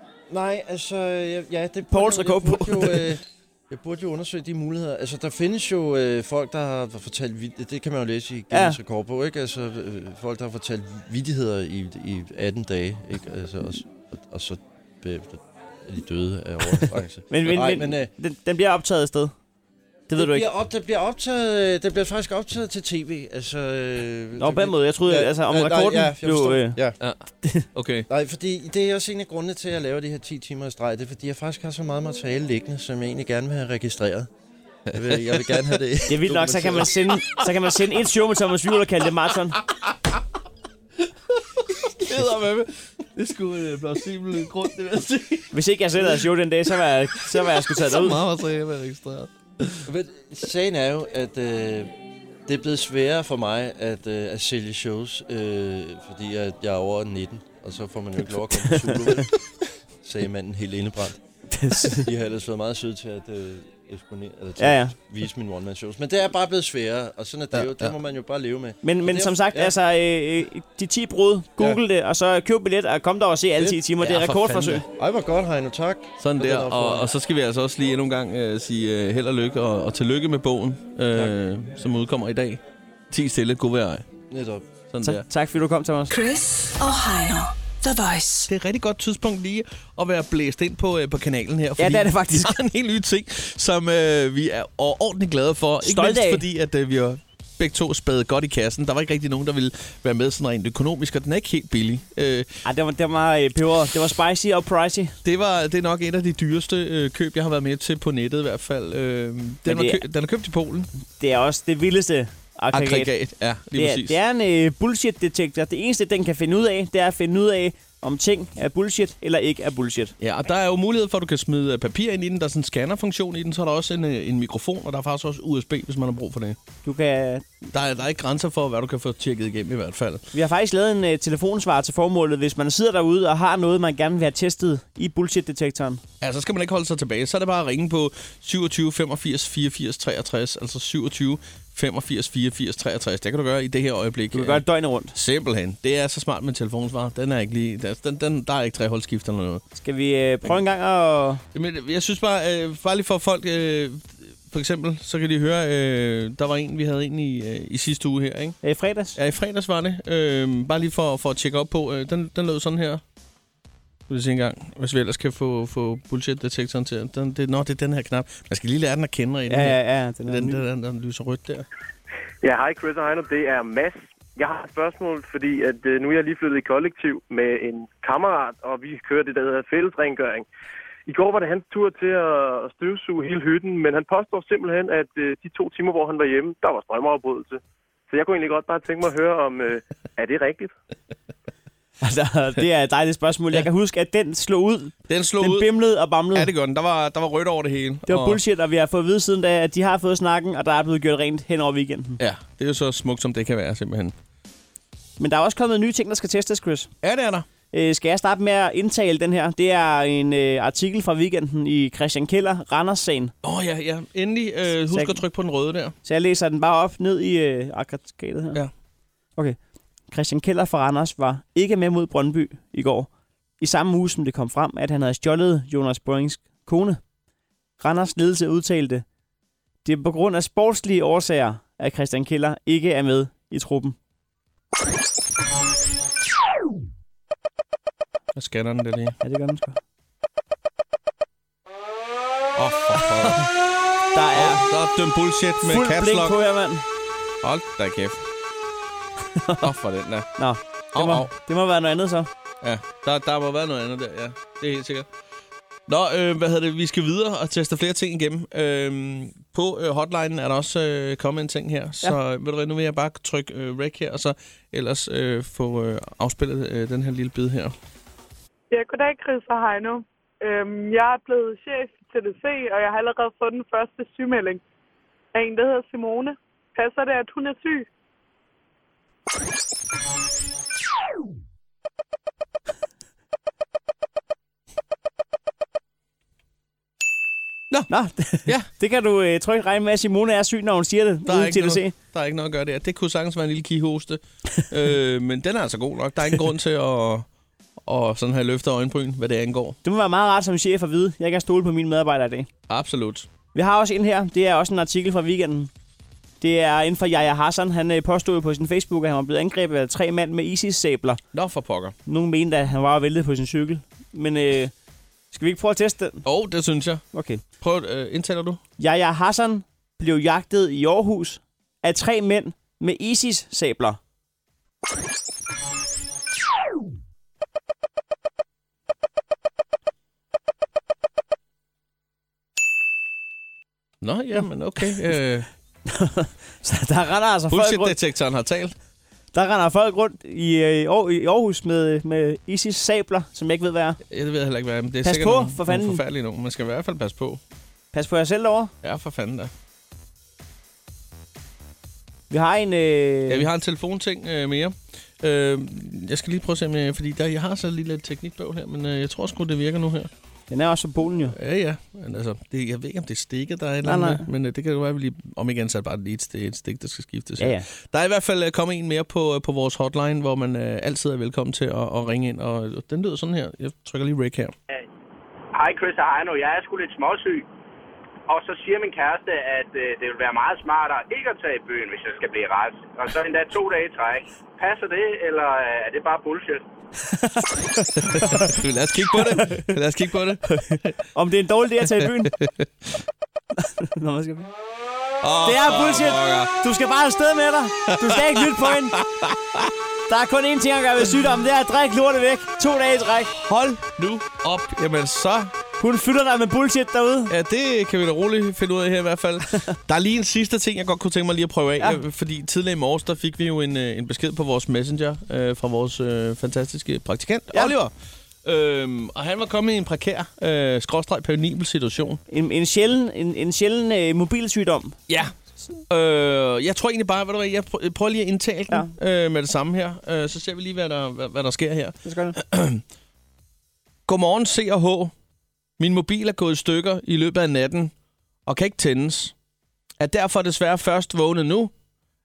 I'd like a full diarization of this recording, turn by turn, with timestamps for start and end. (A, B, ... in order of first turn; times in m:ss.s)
0:00.3-0:18.1 A
0:01.9-0:03.1 B
0:08.5-0:08.8 B
0:16.8-0:19.3 B
0:20.1-0:20.5 B
0:20.2-0:27.0 A
0:24.4-0:26.8 B
0:27.0-0:28.1 C
0:28.1-0:34.3 A
0:34.9-0:35.8 C
0:34.9-0:36.9 A
0:36.1-0:39.6 B
0:39.6-0:40.2 C
0:41.0-0:45.5 C
0:45.5-0:48.2 B
0:47.2-0:49.8 C
0:49.8-0:51.9 A
0:52.5-0:59.4 A
1:00.0-1:01.2 A
1:01.5-1:02.0 B
1:01.8-1:09.7 A
1:04.6-1:04.9 B
1:07.5-1:07.9 C
1:08.8-1:14.8 B
1:13.6-1:17.0 A
1:14.0-1:14.8 C
1:16.2-1:24.0 C
1:24.3-1:24.7 A
1:24.9-1:25.2 C
1:25.0-1:26.1 B
1:26.1-1:28.5 D
1:28.5-1:42.5 C
1:31.8-1:32.6 B
1:35.8-1:36.4 B
1:42.6-1:45.2 B
1:45.2-1:50.9 C
1:49.6-1:50.0 B
1:51.2-1:53.1 B
1:52.7-1:54.2 C
1:53.7-2:00.1 B
2:00.2-2:06.6 C
2:06.8-2:07.5 B
2:07.7-2:10.3 C
2:10.3-2:16.0 B
2:16.2-2:24.6 C
2:24.3-2:25.2 B
2:25.1-2:29.6 C
2:29.8-2:31.4 B
2:31.5-2:38.6 C
2:38.6-2:39.2 B
2:39.2-2:43.0 C
2:44.1-2:51.6 C
2:49.5-2:50.6 B
2:52.4-3:00.4 E
3:01.1-3:10.7 E
3:12.0-3:16.5 B
3:15.1-3:15.7 C
3:16.3-3:18.4 C
3:18.1-3:22.2 B
3:22.2-3:24.1 C
3:25.2-3:26.9 B
3:27.0-3:27.5 C
3:27.7-3:33.3 B
3:33.4-3:35.9 C
3:34.9-3:35.2 B
3:36.0-3:38.6 B
3:40.1-3:43.1 B
3:43.6-3:47.0 B
3:47.8-3:49.0 B
3:49.8-3:54.0 B
3:58.3-3:59.2 C
3:59.2-3:59.8 B
4:02.5-4:03.5 C
4:04.1-4:04.7 B
4:04.3-4:06.4 C
4:05.6-4:06.8 B
4:07.4-4:08.2 C
4:09.4-4:09.6 B
4:09.6-4:10.3 C
4:10.4-4:12.3 B
4:10.9-4:11.3 C
4:12.6-4:15.1 C
4:15.9-4:27.7 C
4:28.7-4:34.6 F
4:35.3-4:37.9 F
4:47.9-4:51.9 B
4:51.2-4:57.3 C
4:57.8-4:59.8 C
4:59.8-5:02.5 B
5:02.7-5:03.3 C
5:03.5-5:05.7 B
5:06.4-5:11.2 B
5:11.3-5:11.9 C
5:12.0-5:14.7 B
5:15.3-5:16.2 B
5:16.2-5:18.6 C
5:17.1-5:17.4 B
5:18.8-5:24.0 B
5:34.0-5:35.5 C
5:35.9-5:37.9 B
5:37.5-5:38.7 C
5:39.3-5:44.0 B
5:44.1-5:47.4 C
5:45.0-5:46.0 B
5:47.9-5:48.7 B
5:48.8-5:49.5 C
5:52.3-5:53.5 B
5:53.3-6:00.1 C
6:00.5-6:01.4 B
6:01.3-6:14.5 C
6:03.8-6:04.3 B
6:07.4-6:07.6 B
6:15.5-6:17.5 G
6:18.3-6:26.6 G
6:27.0-6:28.6 B
6:28.0-6:30.9 C
6:29.1-6:29.7 B
6:30.5-6:32.3 B
6:31.8-6:32.7 C
6:33.6-6:34.5 B
6:35.2-6:36.5 C
6:35.4-6:39.0 B
6:37.9-6:39.7 C
6:40.1-6:43.3 B
6:43.2-6:45.5 C
6:45.8-6:47.3 B
6:47.3-6:57.9 C
6:58.4-7:02.2 C
7:02.3-7:05.0 B
7:05.1-7:05.3 C
7:05.9-7:12.8 C
7:12.0-7:12.4 B
7:14.0-7:15.1 C
7:15.8-7:17.9 C
7:18.4-7:19.3 C
7:20.0-7:21.7 C